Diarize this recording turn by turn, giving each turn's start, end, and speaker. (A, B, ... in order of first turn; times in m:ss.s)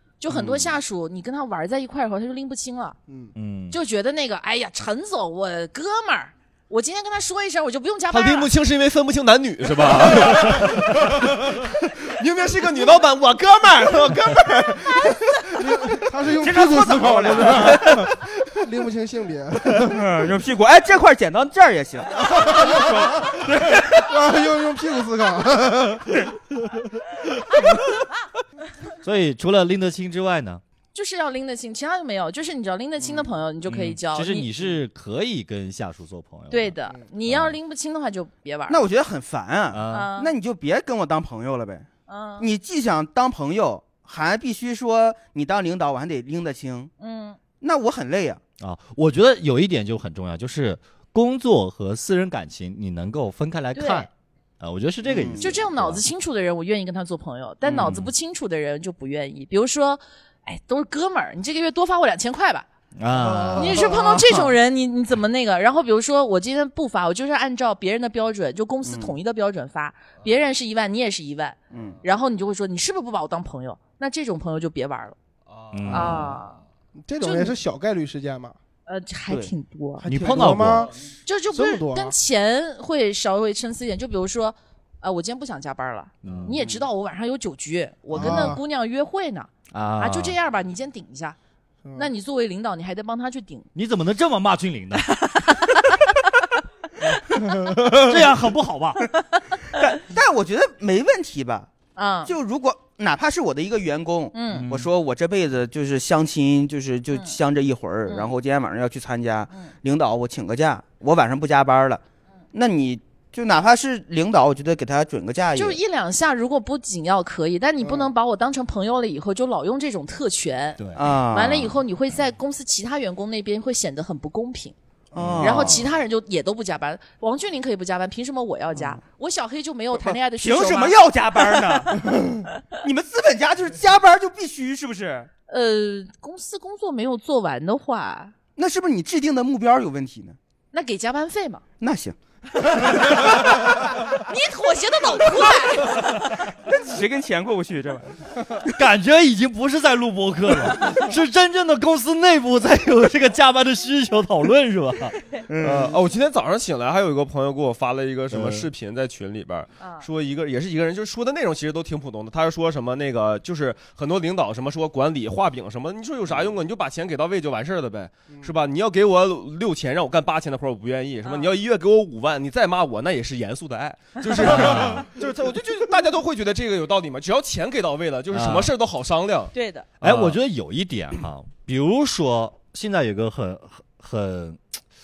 0:00.2-0:03.0 A
0:00.3-0:00.8 B
0:03.1-0:03.3 C
0:03.4-0:03.8 D
0:03.7-0:08.5 A
0:08.1-0:15.3 E
0:15.5-0:20.0 C
0:16.4-0:18.1 B
0:19.8-0:24.0 B
0:22.3-0:23.4 C
0:23.9-0:26.1 C
0:29.0-0:30.6 D
0:30.9-0:34.5 A
0:33.0-0:33.3 B
0:33.6-0:36.7 D
0:36.5-0:38.8 A
0:37.2-0:37.6 D
0:38.7-0:41.9 B
0:39.7-0:40.1 D
0:39.9-0:40.3 A
0:42.1-0:42.5 A
0:42.4-0:46.9 B
0:47.0-0:47.4 A
0:47.6-0:48.4 B
0:48.6-0:54.1 D
0:53.7-0:54.1 A
0:54.6-0:56.0 D
0:55.0-0:55.5 B
0:55.4-1:02.6 A
0:57.6-0:57.9 B
0:57.8-0:58.1 D
1:03.0-1:03.9 D
1:03.2-1:04.5 B
1:03.6-1:15.2 A
1:08.8-1:09.2 B
1:11.7-1:12.0 B
1:15.4-1:16.3 E
1:15.7-1:16.4 D
1:15.9-1:16.6 A
1:17.0-1:18.6 C
1:17.2-1:17.5 A
1:18.9-1:20.0 A
1:20.0-1:20.9 C
1:20.0-1:20.9 D
1:20.7-1:21.1 E
1:21.2-1:31.4 A
1:21.5-1:22.1 C
1:26.2-1:26.6 D
1:26.6-1:26.9 B
1:28.2-1:28.5 D
1:28.2-1:28.5 B
1:28.2-1:28.6 C
1:29.7-1:30.4 D
1:31.9-1:33.7 A
1:33.7-1:35.0 D
1:35.0-1:36.0 A
1:37.8-1:38.2 B
1:37.8-1:39.0 D
1:39.8-1:41.7 B
1:41.9-1:42.3 A
1:42.2-1:52.0 B
1:44.3-1:44.7 A
1:44.5-1:44.9 D
1:48.1-1:48.3 A
1:52.5-1:55.8 B
1:55.5-2:04.7 A
1:57.8-1:58.1 C
2:00.8-2:01.1 D
2:01.0-2:01.8 B
2:05.1-2:05.8 B
2:05.1-2:05.8 D
2:05.4-2:11.0 A
2:08.7-2:09.0 B
2:10.0-2:12.2 B
2:12.8-2:15.3 B
2:15.5-2:18.3 A
2:18.6-2:20.4 B
2:20.7-2:21.6 A
2:21.8-2:23.1 B
2:22.7-2:26.4 A
2:26.6-2:28.6 B
2:28.7-2:35.2 D
2:35.5-2:36.0 B
2:35.6-3:00.4 E
2:38.3-2:38.7 D
2:39.8-2:40.1 A
2:51.2-2:51.5 A
2:54.4-2:55.1 D
2:58.3-2:58.7 D
2:59.5-2:59.9 A
3:00.0-3:04.6 D